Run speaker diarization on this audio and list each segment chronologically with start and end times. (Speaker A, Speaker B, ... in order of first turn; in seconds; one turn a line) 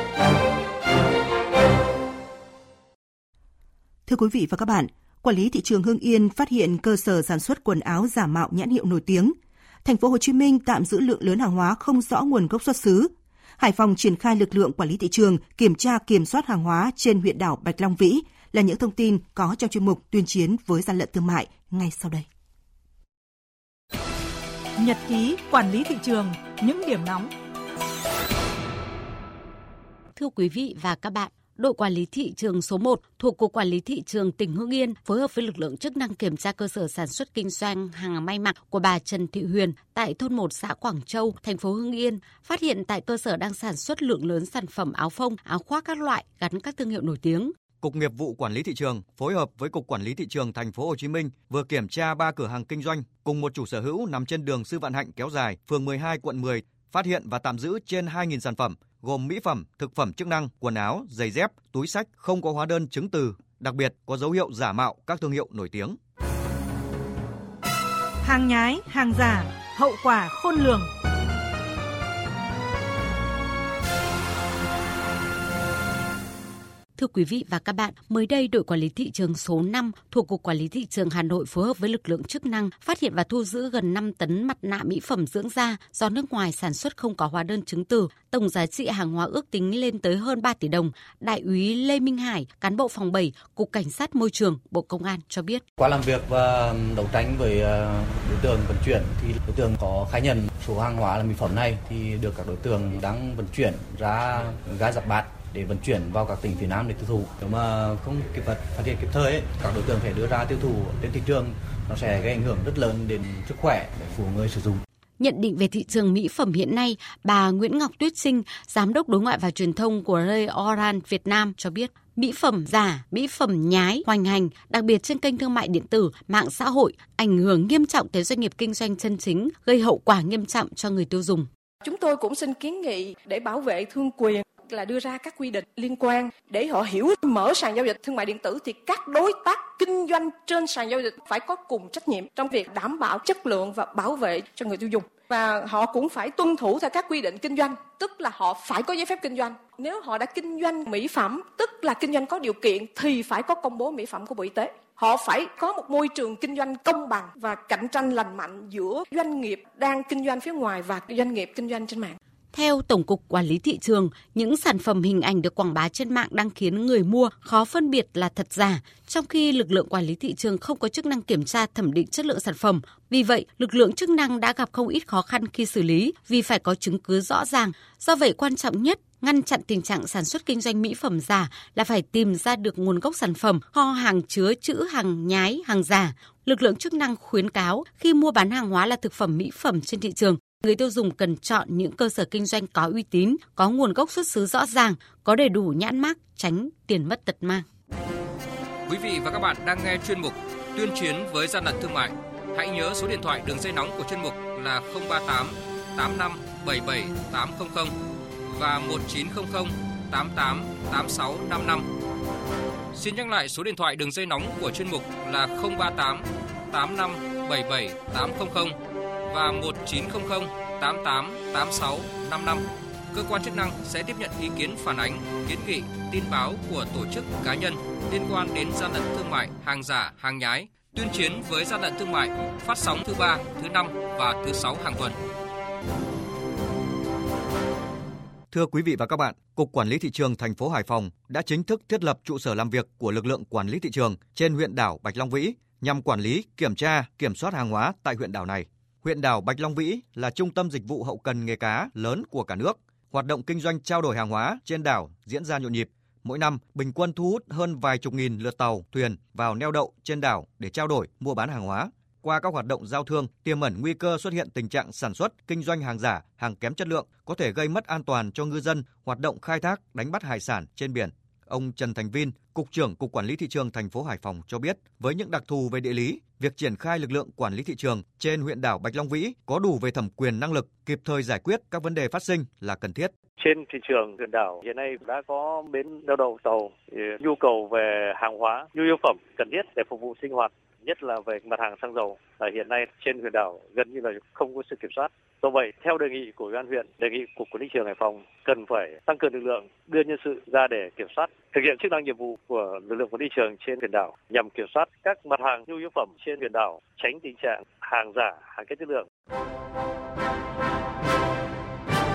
Speaker A: 4.1-22.2
Speaker B: 24.8-27.3
Speaker C: 30.1-47.5
Speaker D: 47.8-66.0
Speaker B: 68.2-70.9
Speaker C: 77.0-95.6
Speaker E: 95.8-114.8
Speaker C: 115.2-131.5
Speaker F: 131.8-162.2
Speaker C: 162.5-197.7
Speaker G: 198.9-207.9
Speaker G: 208.4-211.8
Speaker G: 212.9-218.8
Speaker G: 219.3-235.2
Speaker D: 238.5-283.1
Speaker H: 283.4-309.1